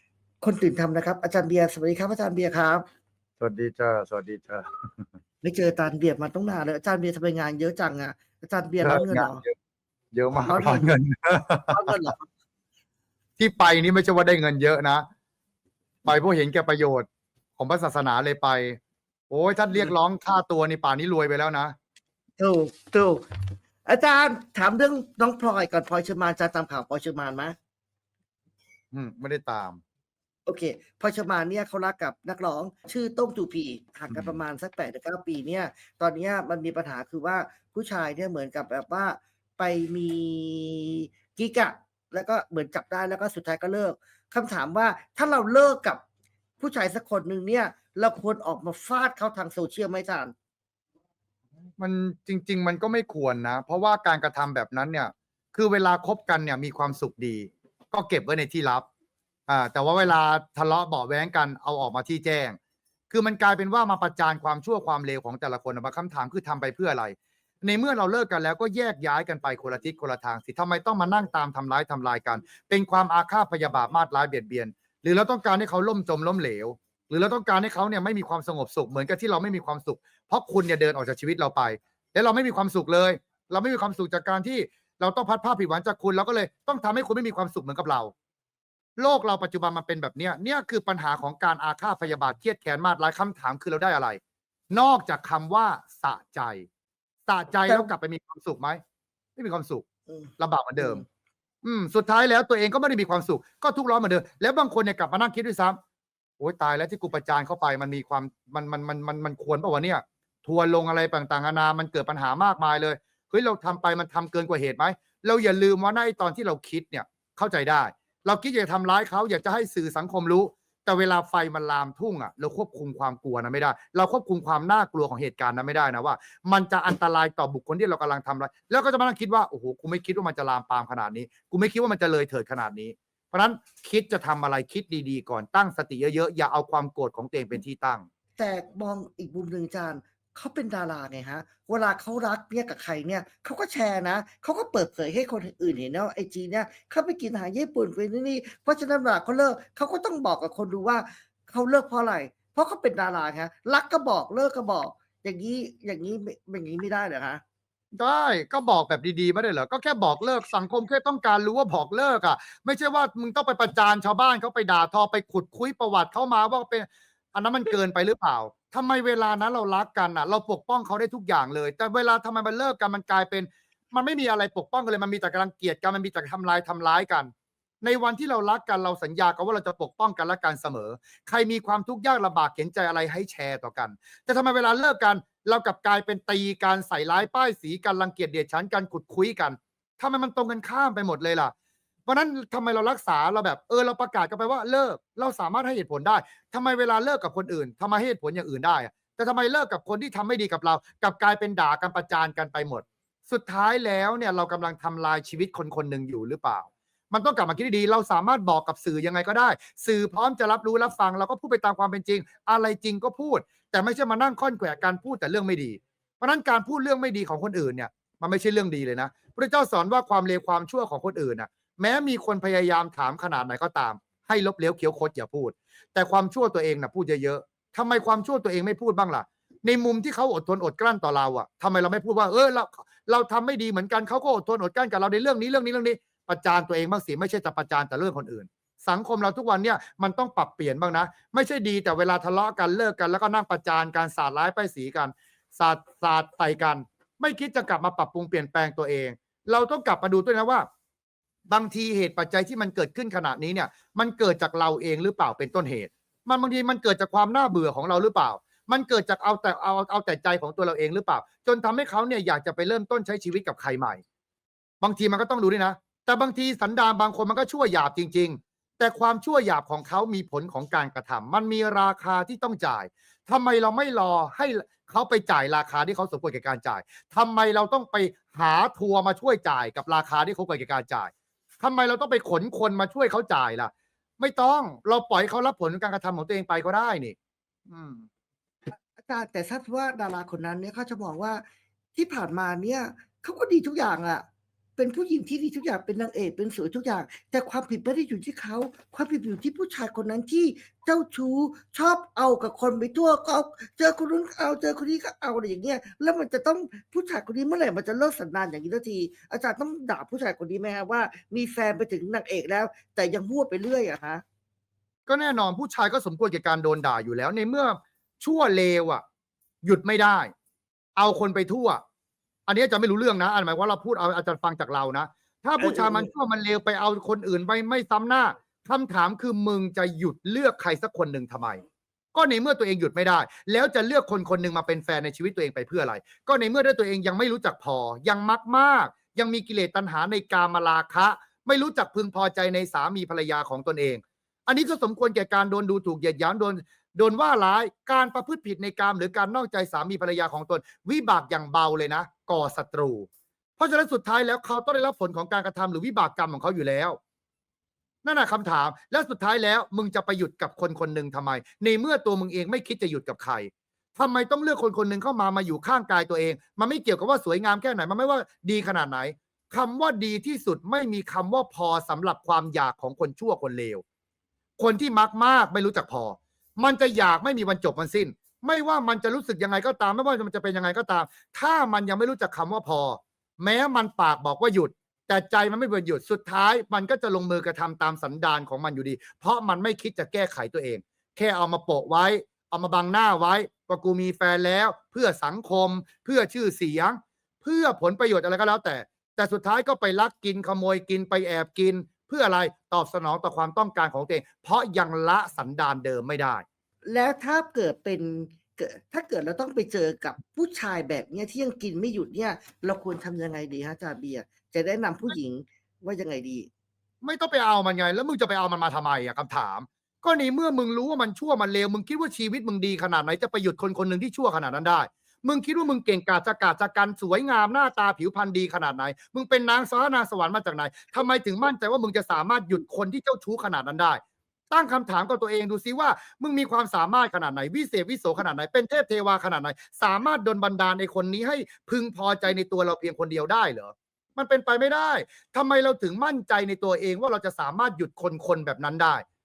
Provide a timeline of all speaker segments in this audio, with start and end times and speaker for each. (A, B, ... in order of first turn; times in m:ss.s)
0:00.4-0:02.8 A
0:03.4-0:04.9 B
0:05.4-0:09.4 A
0:08.8-0:09.5 B
0:10.1-0:11.8 B
0:10.4-0:10.9 A
0:11.7-0:12.2 A
0:13.4-0:15.0 B
0:16.0-0:17.0 B
0:17.6-0:18.8 B
0:19.3-0:21.7 B
0:22.4-0:23.2 A
0:23.8-0:27.6 A
0:28.9-0:29.8 B
0:30.4-0:46.0 A
0:46.6-0:50.3 A
0:51.8-0:58.8 B
0:59.5-1:02.6 B
1:03.1-1:28.1 B
1:29.0-1:34.2 B
1:34.7-1:36.6 B
1:37.3-1:38.8 B
1:39.4-1:39.8 B
1:40.1-1:41.0 A
1:40.4-1:41.0 B
1:41.6-1:45.8 B
1:46.4-2:18.0 B
2:18.4-2:37.4 A
2:37.9-2:57.3 B
2:57.8-3:11.5 B
3:12.1-4:10.7 B
4:11.5-4:24.0 B
4:24.8-4:47.1 B
4:47.7-4:48.1 B
4:49.0-4:51.4 A
4:51.9-4:54.2 A
4:54.8-5:14.2 A
5:15.1-5:19.0 B
5:19.6-5:20.3 B
5:21.0-5:21.8 B
5:22.5-5:31.6 B
5:25.6-5:26.1 A
5:32.1-5:57.0 B
5:58.0-6:13.8 B
6:14.6-6:46.4 B
6:46.8-6:56.5 A
6:57.0-7:14.0 B
7:14.5-7:29.0 B